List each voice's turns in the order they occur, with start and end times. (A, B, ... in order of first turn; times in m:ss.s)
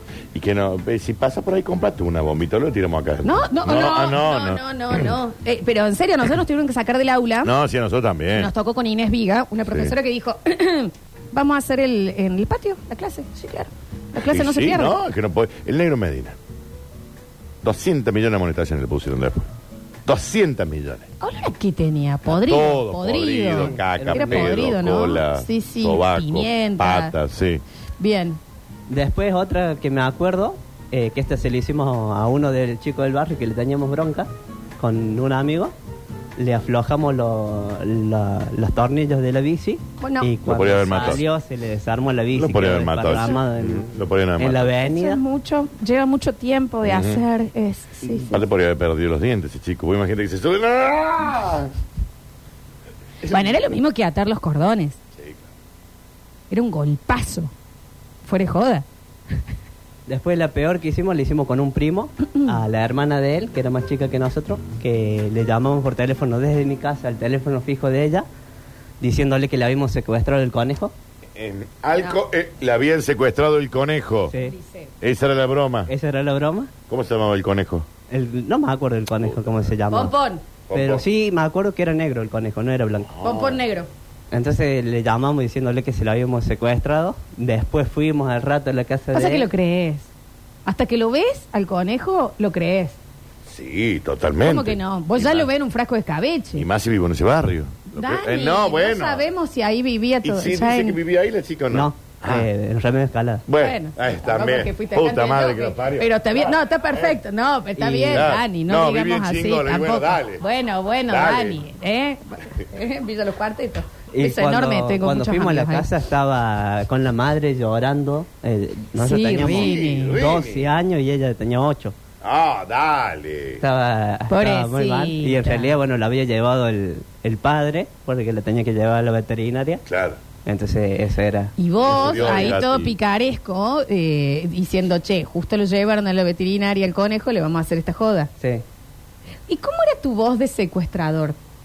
0:00.3-0:05.1 A
0:03.2-0:07.5 B
0:07.4-0:08.5 A
0:08.4-0:15.0 B
0:09.7-0:09.9 A
0:14.2-0:16.4 A
0:17.6-0:19.5 A
0:20.0-0:21.1 A
0:21.2-0:27.1 B
0:22.2-0:27.6 A
0:23.5-0:24.8 C
0:28.0-0:28.4 B
0:28.9-0:35.7 C
0:36.4-0:43.8 C
0:40.0-0:40.3 B
0:40.4-0:41.2 A
0:42.4-0:44.7 A
0:43.1-0:43.4 B
0:44.4-0:45.2 C
0:44.7-0:48.4 B
0:46.8-0:47.2 A
0:48.2-0:51.7 A
0:53.2-0:53.5 A
0:53.3-0:55.0 B
0:55.2-0:55.4 A
0:56.5-0:57.5 B
0:58.2-0:58.8 B
1:00.1-1:08.2 C
1:09.0-1:10.9 C
1:11.4-1:14.3 A
1:14.3-1:14.9 B
1:15.0-1:15.9 A
1:15.9-1:16.7 C
1:16.9-1:17.9 A
1:18.1-1:20.1 C
1:19.2-1:19.7 A
1:19.9-1:20.4 B
1:20.7-1:21.0 A
1:20.7-1:23.1 C
1:23.1-1:23.6 A
1:23.2-1:23.9 B
1:24.3-1:29.5 C
1:29.1-1:30.1 B
1:30.6-1:33.0 B
1:33.4-1:35.5 A
1:34.4-1:36.6 B
1:36.6-1:39.3 A
1:37.9-1:41.0 B
1:40.2-1:42.4 A
1:41.7-1:43.4 C
1:43.5-1:47.2 A
1:43.6-1:55.9 B
1:47.8-1:48.3 C
1:48.1-1:50.4 A
1:51.1-1:51.6 A
1:54.1-2:01.9 C
1:59.0-2:00.2 B
1:59.4-2:00.7 A
2:02.2-2:03.6 A
2:03.6-2:09.8 C
2:04.3-2:05.7 B
2:09.9-2:10.2 A
2:10.4-2:12.6 C
2:11.6-2:18.3 B
2:11.8-2:13.0 A
2:19.5-2:21.4 B